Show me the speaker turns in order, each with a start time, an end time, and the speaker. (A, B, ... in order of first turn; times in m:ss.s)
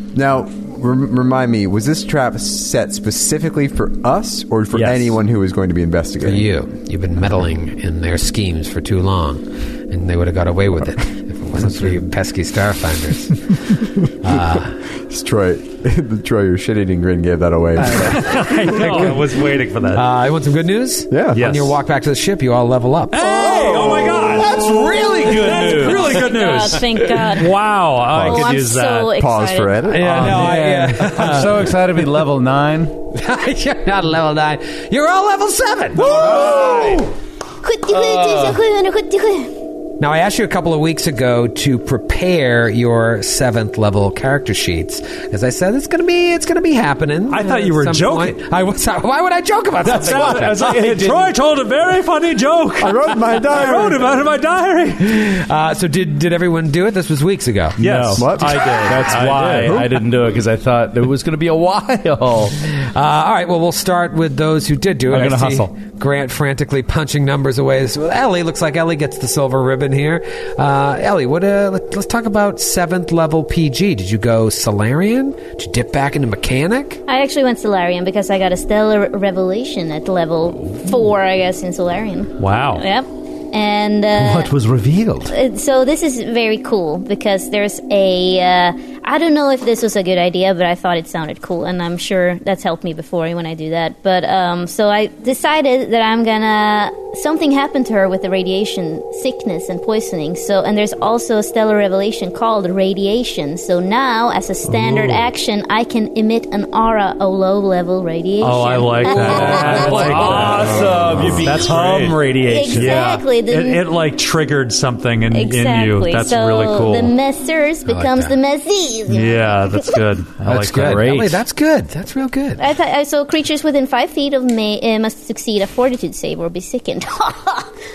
0:00.1-0:06.5 A
0:04.7-0:05.2 B
0:06.2-0:14.8 C
0:15.0-0:19.1 A
0:17.9-0:20.1 D
0:19.9-0:23.4 C
0:21.1-0:21.4 A
0:21.3-0:21.8 D
0:23.1-0:29.1 D
0:23.3-0:26.2 B
0:25.9-0:27.6 E
0:28.1-0:29.9 E
0:28.1-0:28.4 F
0:29.2-0:30.3 A
0:29.9-0:31.7 C
0:30.0-0:30.5 D
0:30.0-0:30.9 B
0:30.1-0:32.9 F
0:33.1-0:37.0 C
0:36.1-0:36.6 F
0:36.2-0:36.6 B
0:37.6-0:39.5 E
0:40.0-0:50.6 C
0:47.3-0:48.4 D
0:49.8-0:51.3 B
0:49.8-0:55.2 D
0:52.8-0:54.3 A
0:55.0-0:57.8 C
0:57.8-1:02.6 B
0:57.8-1:00.0 D
0:58.2-0:59.0 A
1:02.6-1:17.0 C
1:05.1-1:05.7 B
1:17.1-1:24.5 E
1:22.4-1:22.8 D
1:24.1-1:25.3 B
1:25.3-1:50.8 E
1:48.4-1:57.1 D
1:49.0-1:53.1 B
1:52.4-1:53.8 E
1:55.3-2:00.0 E
1:57.9-1:58.4 C
1:59.1-2:01.1 D
2:00.5-2:02.6 C
2:00.5-2:01.4 B
2:02.6-2:07.7 E